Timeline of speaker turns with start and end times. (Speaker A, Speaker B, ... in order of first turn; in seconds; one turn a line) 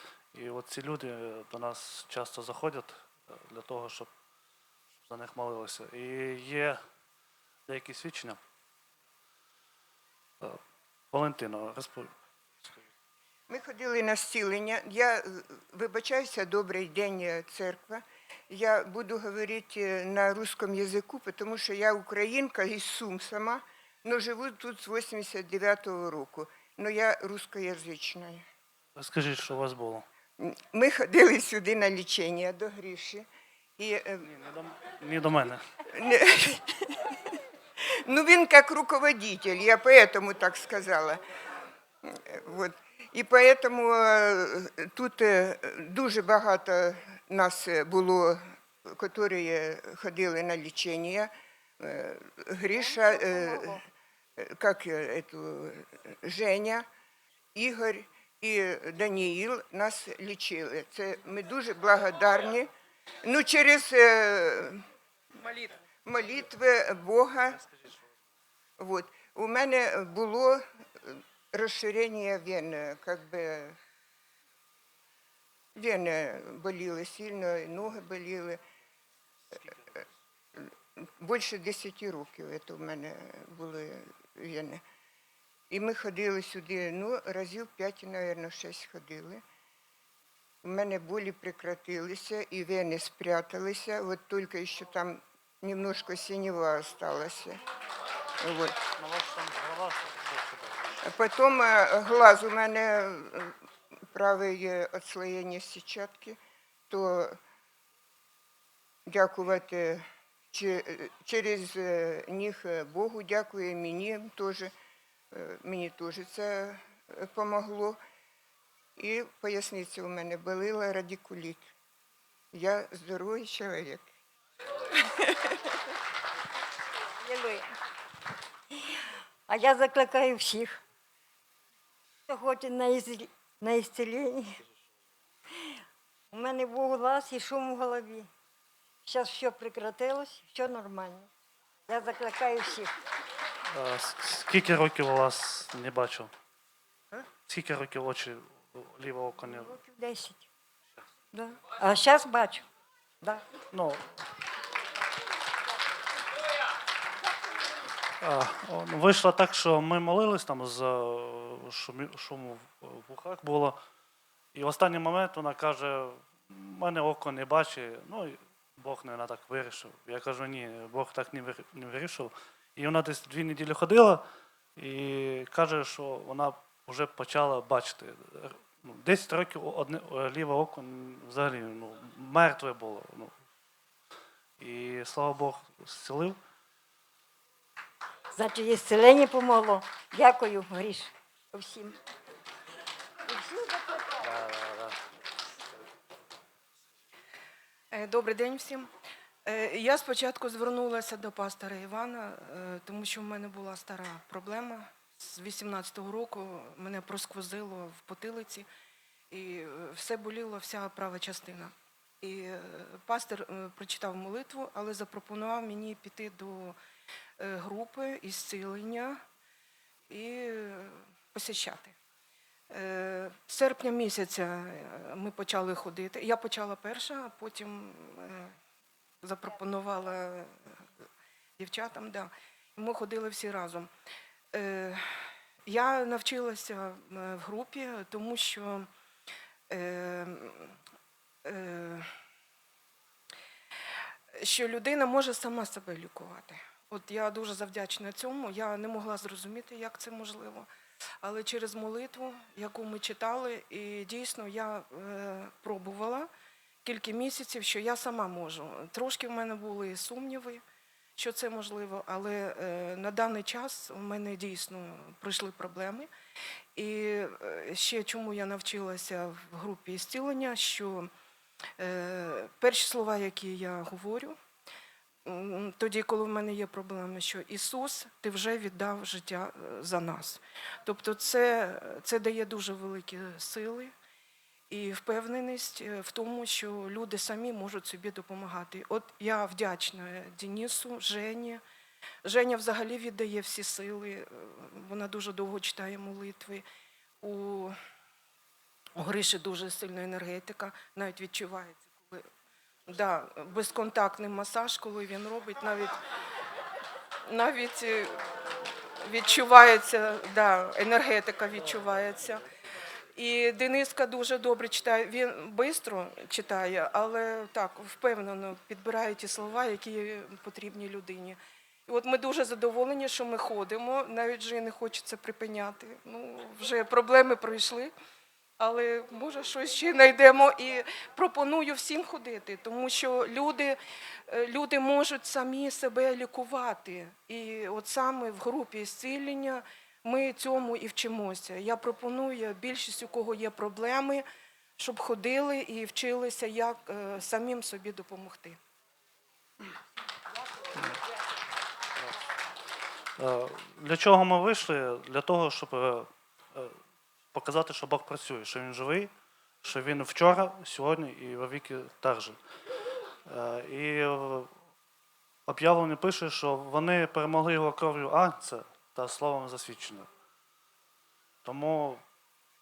Speaker A: 0.3-4.1
Speaker A: 5.0-6.8
Speaker A: 7.7-8.4
Speaker A: 11.1-12.1
Speaker A: 12.6-12.9
Speaker B: 13.5-28.4
Speaker A: 29.0-30.1
Speaker B: 30.4-33.3
Speaker B: 33.8-34.3
Speaker A: 34.2-35.6
Speaker B: 35.9-41.2
Speaker B: 42.0-53.8
Speaker C: 52.9-53.8
Speaker B: 54.4-56.9
Speaker B: 57.5-62.7
Speaker B: 63.2-64.8
Speaker B: 65.4-67.7
Speaker B: 68.8-73.8
Speaker B: 75.8-78.6
Speaker B: 80.5-84.8
Speaker B: 85.7-89.4
Speaker B: 90.6-97.6
Speaker A: 98.4-101.0
Speaker B: 101.0-103.6
Speaker B: 104.1-106.4
Speaker B: 106.9-107.4
Speaker B: 109.1-114.7
Speaker B: 115.3-118.0
Speaker B: 119.0-121.7
Speaker B: 122.5-124.1
Speaker B: 125.0-125.5
Speaker C: 127.2-127.7
Speaker C: 129.5-130.8
Speaker C: 132.3-134.6
Speaker C: 136.3-138.3
Speaker C: 139.1-141.3
Speaker C: 141.9-142.9
Speaker A: 143.7-146.3
Speaker A: 147.4-149.8
Speaker C: 149.5-150.5
Speaker C: 151.3-152.7
Speaker A: 153.7-154.2
Speaker A: 158.2-163.8
Speaker A: 164.5-174.2
Speaker A: 174.8-183.3
Speaker A: 184.6-186.4
Speaker C: 188.3-192.0
Speaker C: 193.3-194.2
Speaker A: 194.2-195.0
Speaker D: 197.9-198.9
Speaker D: 199.4-208.7
Speaker D: 209.3-216.8
Speaker D: 217.4-219.2
Speaker D: 220.1-222.0
Speaker D: 222.7-228.6
Speaker D: 229.2-230.8
Speaker D: 231.6-233.9
Speaker D: 234.5-238.9
Speaker D: 239.7-240.8
Speaker D: 241.4-242.1
Speaker D: 244.3-250.7
Speaker D: 251.2-256.3
Speaker D: 256.8-260.6
Speaker D: 261.2-266.1
Speaker D: 266.8-271.1
Speaker D: 271.8-274.4
Speaker D: 275.2-283.9
Speaker D: 284.7-291.6
Speaker D: 292.2-296.6
Speaker D: 297.2-297.8
Speaker D: 299.0-302.3
Speaker D: 302.9-306.0
Speaker D: 307.2-308.2
Speaker D: 308.9-312.4
Speaker D: 313.1-327.9
Speaker D: 328.6-344.2
Speaker D: 344.8-348.6
Speaker A: 353.2-356.8
Speaker A: 357.3-362.4
Speaker A: 363.3-364.5
Speaker A: 365.5-370.1
Speaker A: 371.4-372.0